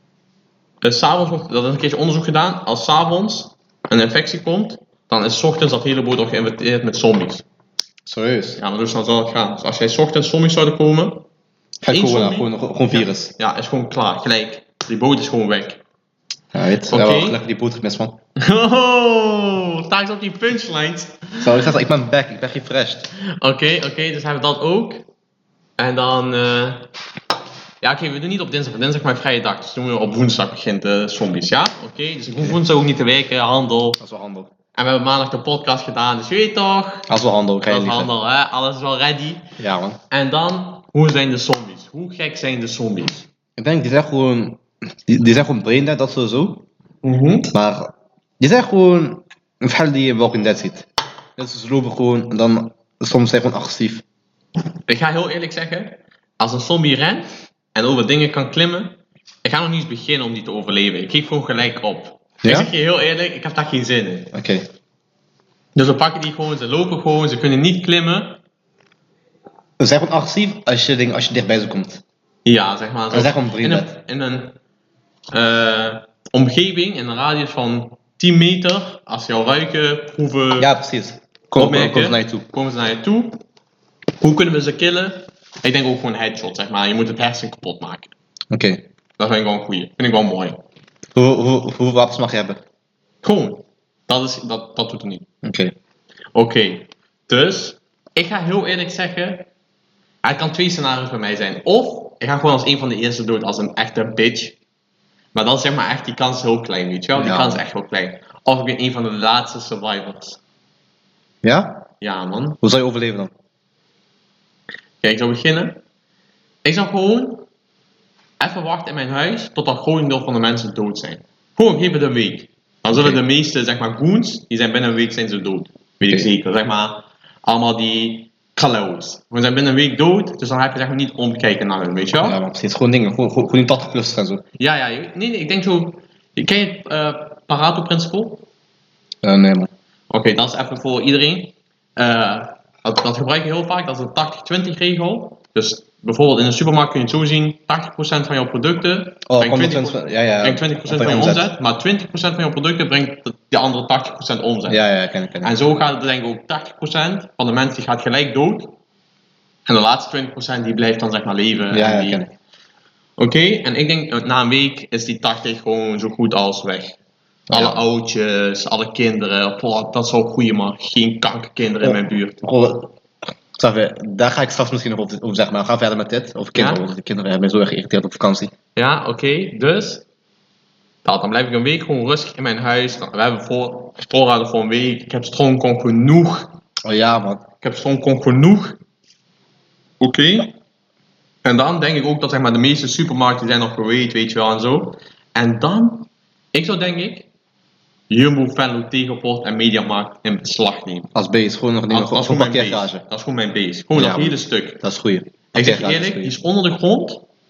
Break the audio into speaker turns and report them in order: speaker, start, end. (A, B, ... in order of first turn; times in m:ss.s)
0:00.8-0:07.4 A
0:08.0-0:08.6 B
0:08.6-0:11.2 A
0:11.8-0:13.3 B
0:11.9-0:15.8 A
0:16.5-0:18.2 B
0:16.8-0:17.4 A
0:18.4-0:21.7 A
0:21.4-0:23.1 B
0:23.2-0:25.0 A
0:25.8-0:26.9 A
0:27.8-0:34.0 A
0:34.0-0:34.5 B
0:34.8-0:37.1 A
0:37.1-0:38.1 B
0:37.7-0:39.4 A
0:39.6-0:40.0 B
0:40.1-0:43.2 A
0:43.6-0:46.6 B
0:47.0-0:47.5 A
0:47.5-0:54.0 B
0:54.9-1:04.3 A
1:02.4-1:02.7 B
1:04.3-1:04.7 B
1:05.8-1:08.4 A
1:09.8-1:12.0 B
1:12.4-1:14.6 A
1:13.1-1:13.9 B
1:15.3-1:20.7 A
1:20.6-1:22.4 B
1:21.6-1:23.4 A
1:24.2-1:28.1 A
1:28.5-1:28.8 B
1:29.2-1:30.6 A
1:31.2-1:32.6 B
1:33.2-1:35.2 A
1:35.4-1:35.8 B
1:36.4-1:39.5 A
1:40.2-1:44.6 A
1:45.3-1:50.4 A
1:47.2-1:47.6 B
1:51.4-1:51.8 B
1:52.0-1:52.6 A
1:52.6-1:53.3 B
1:55.0-1:55.8 A
1:56.6-1:57.5 A
1:58.4-2:12.4 A
2:02.9-2:03.2 B
2:12.2-2:14.4 B
2:14.6-2:18.4 A
2:19.2-2:19.7 B
2:20.1-2:34.8 A
2:29.3-2:31.5 B
2:34.7-2:35.6 B
2:35.4-2:38.8 A
2:39.7-2:42.2 A
2:41.7-2:42.3 B
2:43.2-2:47.0 A
2:47.5-2:47.8 B
2:47.5-2:52.4 A
2:51.8-2:52.9 B
2:53.6-2:58.5 B
2:56.6-2:56.8 A
2:58.8-3:00.0 A
3:01.0-3:06.6 A
3:06.8-3:07.4 B
3:07.6-3:08.8 A
3:10.0-3:10.5 A
3:11.4-3:17.3 A
3:18.1-3:21.1 A
3:21.2-3:23.0 B
3:21.9-3:24.8 A
3:24.0-3:26.4 B
3:25.5-3:27.2 A